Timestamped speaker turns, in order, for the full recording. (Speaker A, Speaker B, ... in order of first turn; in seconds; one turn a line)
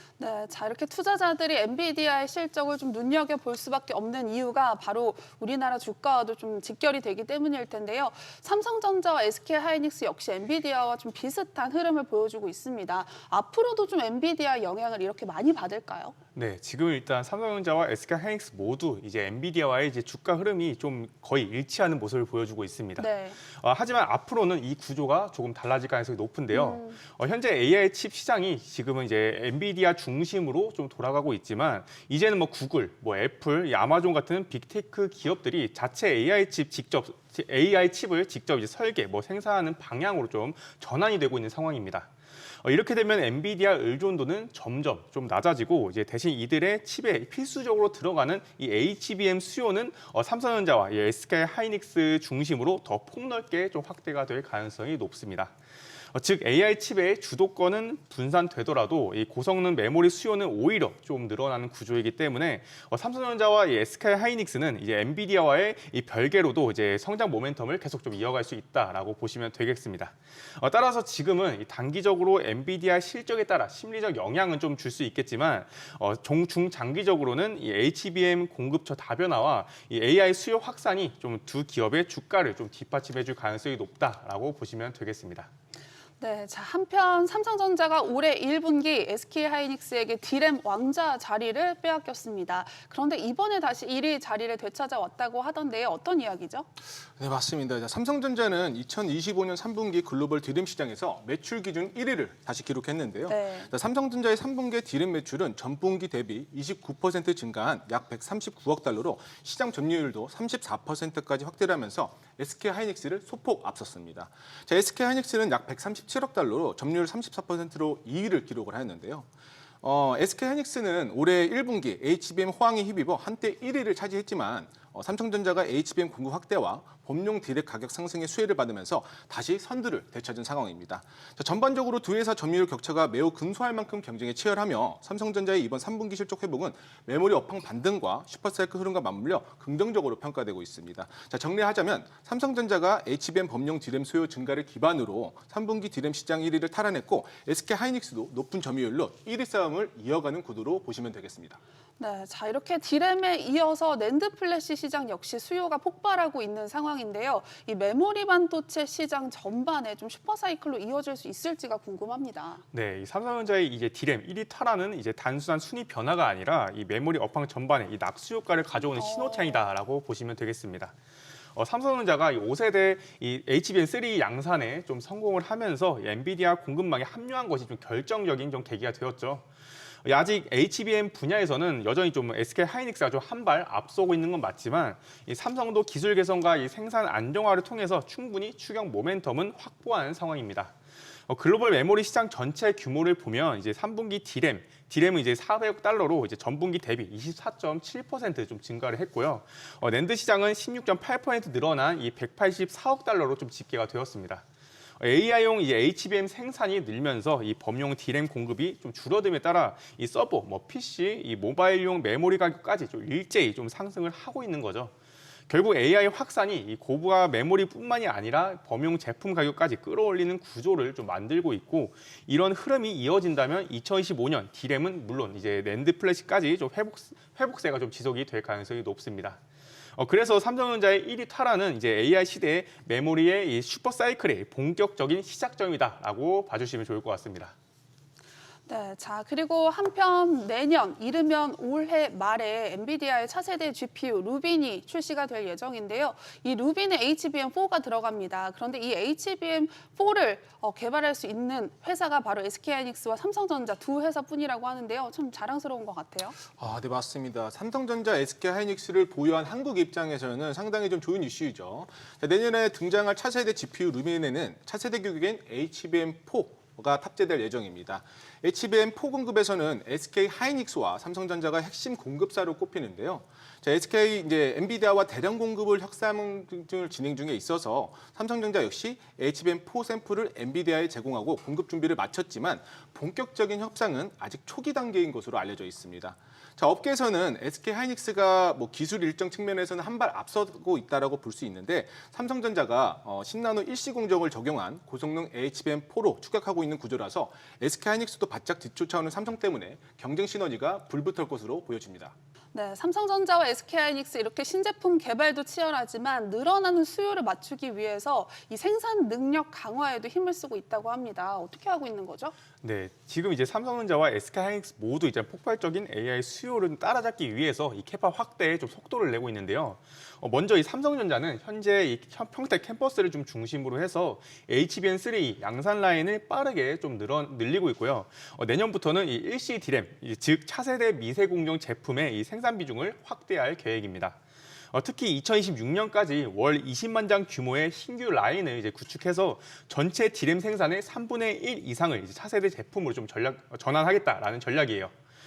Speaker A: 0.2-16.1
Speaker B: 16.4-42.1
Speaker A: 23.0-23.4
Speaker A: 26.5-27.0
Speaker B: 42.6-55.5
Speaker B: 56.1-85.5
Speaker A: 86.2-96.7
Speaker C: 97.2-119.3
Speaker A: 103.3-103.7
Speaker C: 119.8-151.6
Speaker A: 152.0-162.6
Speaker B: 162.7-170.9
Speaker A: 169.0-169.7
Speaker B: 171.6-179.5
Speaker B: 180.0-190.7
Speaker B: 191.3-204.4
Speaker B: 205.0-214.9
Speaker B: 215.5-229.4
Speaker B: 230.0-237.5
Speaker A: 238.7-256.4
Speaker C: 256.6-302.1
Speaker A: 302.5-312.4
Speaker B: 312.6-334.2
Speaker B: 334.7-344.9